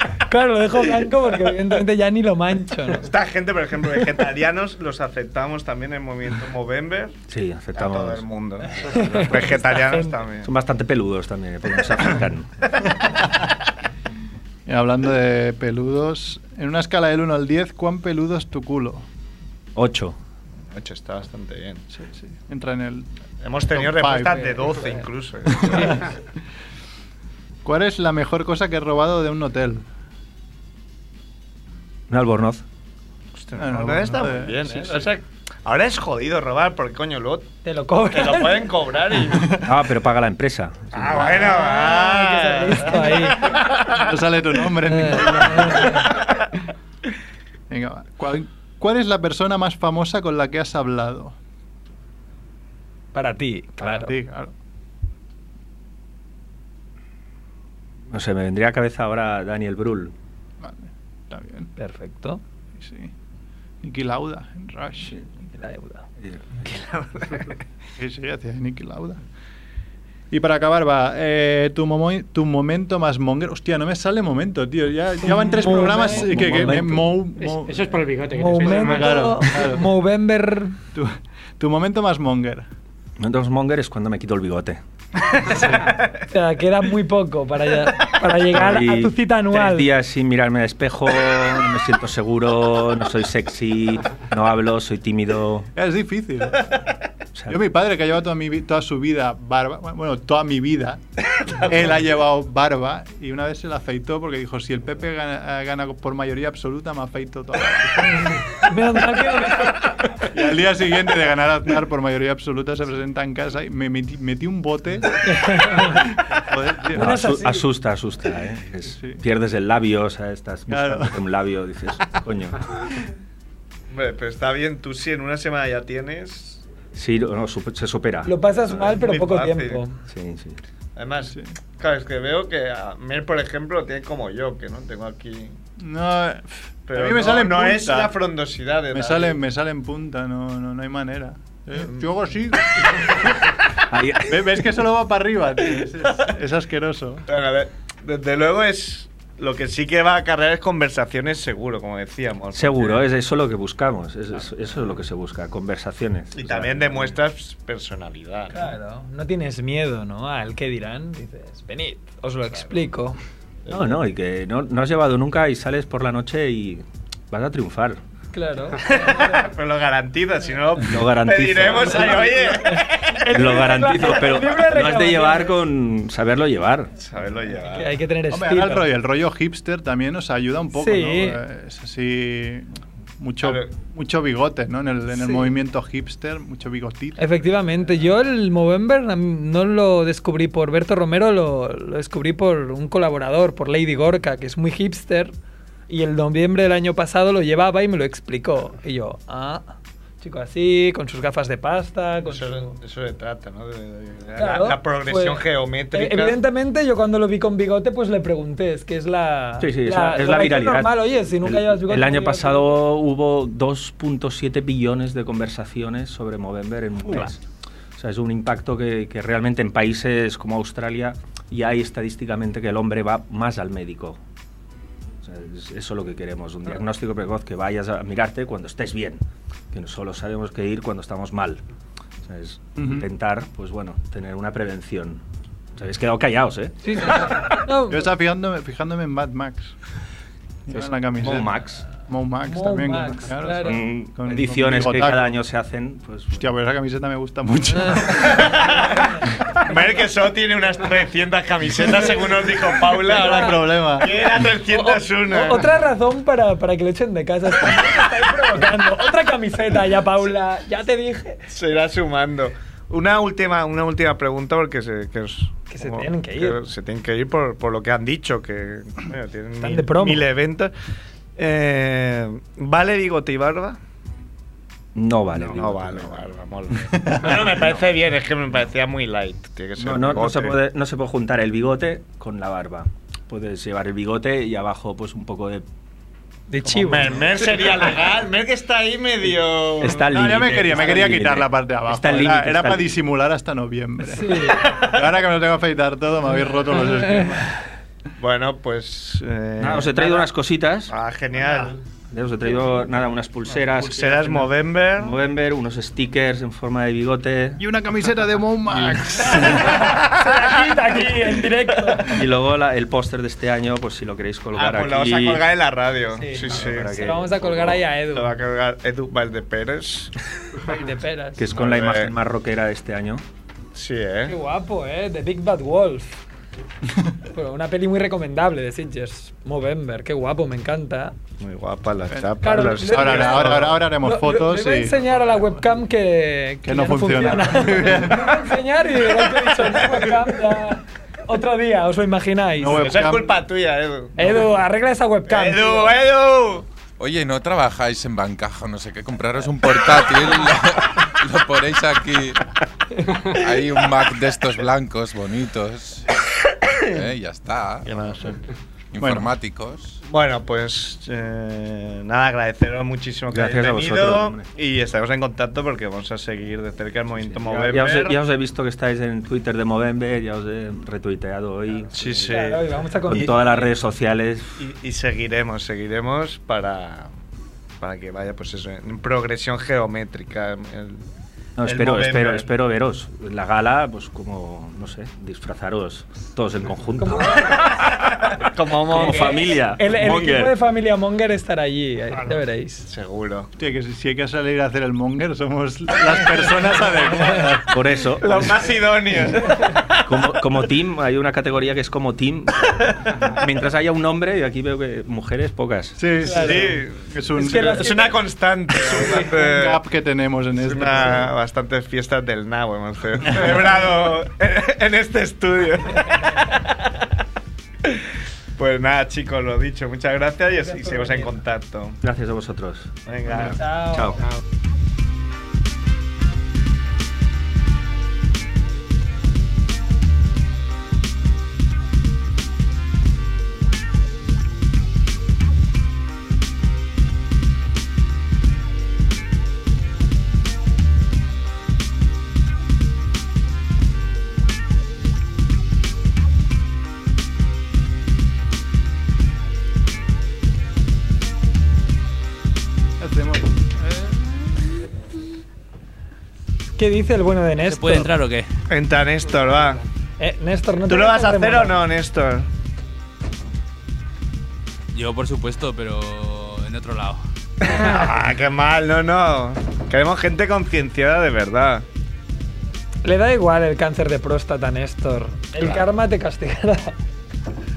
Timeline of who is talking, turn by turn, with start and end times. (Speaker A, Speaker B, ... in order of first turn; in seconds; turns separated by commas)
Speaker A: 0.3-3.1, Speaker B: 2.9-7.2, Speaker C: 7.3-8.2, Speaker B: 7.7-10.5, Speaker A: 8.8-10.1, Speaker C: 10.4-12.5, Speaker D: 14.7-19.1, Speaker C: 19.7-20.1, Speaker B: 20.7-21.9, Speaker D: 21.9-23.1, Speaker B: 23.4-26.1, Speaker D: 23.7-24.7, Speaker D: 25.5-25.9, Speaker D: 27.6-29.8, Speaker C: 32.1-32.6, Speaker B: 33.3-37.5, Speaker D: 33.5-34.9, Speaker A: 37.6-38.7, Speaker B: 38.1-39.6, Speaker D: 39.3-39.6, Speaker C: 39.6-41.4, Speaker B: 40.9-44.1, Speaker A: 41.4-43.5, Speaker D: 43.9-46.0, Speaker A: 44.8-46.1, Speaker B: 45.8-46.4, Speaker D: 47.7-51.4, Speaker A: 53.1-54.1, Speaker D: 53.8-54.5, Speaker C: 58.1-60.1, Speaker D: 60.6-61.7, Speaker A: 61.8-62.4, Speaker D: 62.7-63.1, Speaker D: 63.8-65.2, Speaker A: 65.6-66.0, Speaker B: 66.7-67.6, Speaker D: 68.0-69.2, Speaker D: 70.3-78.0, Speaker A: 75.2-76.3, Speaker C: 76.1-77.1, Speaker E: 77.4-79.4, Speaker A: 78.3-80.7, Speaker D: 78.6-79.9, Speaker D: 80.9-82.7, Speaker C: 83.2-84.8, Speaker B: 85.6-86.2, Speaker A: 86.3-89.9, Speaker C: 88.5-95.7, Speaker D: 95.8-96.8, Speaker D: 97.5-101.0, Speaker D: 101.6-108.5, Speaker A: 108.6-109.8, Speaker D: 110.3-117.3, Speaker A: 115.2-116.1, Speaker A: 116.9-117.6, Speaker C: 116.9-122.7, Speaker D: 118.9-119.2, Speaker D: 120.7-121.2, Speaker B: 123.9-126.6, Speaker C: 126.9-128.3, Speaker A: 128.2-129.9, Speaker B: 128.5-129.8, Speaker C: 130.1-130.6, Speaker B: 130.9-135.6, Speaker D: 135.8-138.2, Speaker B: 136.9-139.4, Speaker D: 138.9-143.3, Speaker C: 143.9-144.6, Speaker D: 144.2-147.2, Speaker B: 147.3-153.0, Speaker C: 152.5-157.2, Speaker B: 156.3-158.7, Speaker A: 158.5-163.2, Speaker B: 162.5-162.7, Speaker B: 163.7-163.9, Speaker C: 163.7-168.0, Speaker A: 168.3-169.4, Speaker B: 168.8-173.6, Speaker C: 170.8-172.4, Speaker A: 171.9-175.6, Speaker C: 173.3-176.9, Speaker B: 177.0-178.0, Speaker A: 177.7-178.8, Speaker D: 178.3-182.7, Speaker A: 180.8-181.4, Speaker D: 183.2-187.2, Speaker B: 183.4-183.7, Speaker A: 187.2-195.3, Speaker A: 195.9-202.7, Speaker B: 202.3-206.4, Speaker A: 204.4-212.7, Speaker C: 209.6-217.4, Speaker C: 218.0-224.2, Speaker C: 225.2-231.6, Speaker C: 232.2-235.2, Speaker D: 232.8-233.1, Speaker C: 235.8-237.3, Speaker A: 236.8-238.1, Speaker D: 237.9-239.7, Speaker D: 240.7-245.3, Speaker C: 240.7-241.8, Speaker A: 242.5-243.8, Speaker C: 243.6-246.4, Speaker D: 246.3-248.4, Speaker A: 247.8-248.2, Speaker B: 248.2-249.1, Speaker B: 249.6-255.7, Speaker D: 253.0-254.2, Speaker A: 253.1-253.6, Speaker A: 254.7-261.4, Speaker B: 261.5-270.7, Speaker A: 265.7-266.6, Speaker A: 269.6-270.2, Speaker B: 271.4-273.8, Speaker C: 274.9-276.2, Speaker B: 275.4-280.6, Speaker D: 276.9-277.4, Speaker C: 279.8-285.6, Speaker A: 286.5-287.2, Speaker B: 286.6-290.1, Speaker C: 289.8-292.9, Speaker D: 290.1-297.5, Speaker A: 294.1-294.6, Speaker B: 294.4-295.0, Speaker A: 296.7-297.2, Speaker B: 298.2-300.3, Speaker C: 299.6-300.9, Speaker B: 300.9-301.8, Speaker C: 302.1-307.6, Speaker B: 303.8-305.1, Speaker D: 307.6-309.8, Speaker A: 309.2-312.2, Speaker B: 309.7-311.1, Speaker C: 312.1-315.4, Speaker B: 314.5-320.1, Speaker A: 316.2-318.3, Speaker C: 316.4-317.7, Speaker A: 320.6-321.4, Speaker C: 321.4-323.2, Speaker B: 321.5-322.1, Speaker B: 323.7-324.4, Speaker A: 324.3-326.2, Speaker A: 327.3-331.1, Speaker B: 331.4-333.8, Speaker D: 332.1-335.1, Speaker A: 332.4-342.9, Speaker D: 336.6-338.4, Speaker B: 339.1-340.2, Speaker D: 342.6-343.4, Speaker B: 342.7-344.5, Speaker A: 344.2-345.9, Speaker B: 345.3-346.7, Speaker F: 347.0-352.4, Speaker F: 353.2-356.1, Speaker B: 356.7-357.0, Speaker F: 356.9-358.1, Speaker B: 357.9-358.4, Speaker F: 358.9-360.0, Speaker D: 359.0-359.3, Speaker B: 360.0-368.1, Speaker C: 363.3-364.4, Speaker C: 367.2-372.3, Speaker B: 371.9-373.3, Speaker A: 372.3-373.7, Speaker C: 373.1-374.5, Speaker B: 374.6-377.1, Speaker B: 377.8-381.0, Speaker C: 381.6-387.6, Speaker B: 381.6-382.5, Speaker A: 387.0-387.6, Speaker B: 387.9-389.6, Speaker C: 388.9-390.5, Speaker A: 389.1-392.9, Speaker B: 392.9-393.5, Speaker D: 393.6-397.8, Speaker C: 397.7-398.7, Speaker B: 398.2-400.0, Speaker C: 400.0-406.0, Speaker D: 406.0-407.9, Speaker A: 406.2-406.7, Speaker B: 406.3-409.8, Speaker A: 407.4-408.2, Speaker D: 408.8-411.3, Speaker B: 410.6-417.0, Speaker B: 418.6-422.0, Speaker A: 420.6-421.3, Speaker C: 422.0-424.2, Speaker B: 423.1-423.6, Speaker A: 423.4-424.1, Speaker D: 453.0-454.7, Speaker A: 456.8-458.1, Speaker G: 457.6-458.5, Speaker B: 458.7-459.8, Speaker A: 460.2-461.8, Speaker B: 460.9-462.5, Speaker G: 464.9-467.2, Speaker B: 467.6-471.8, Speaker A: 473.0-476.9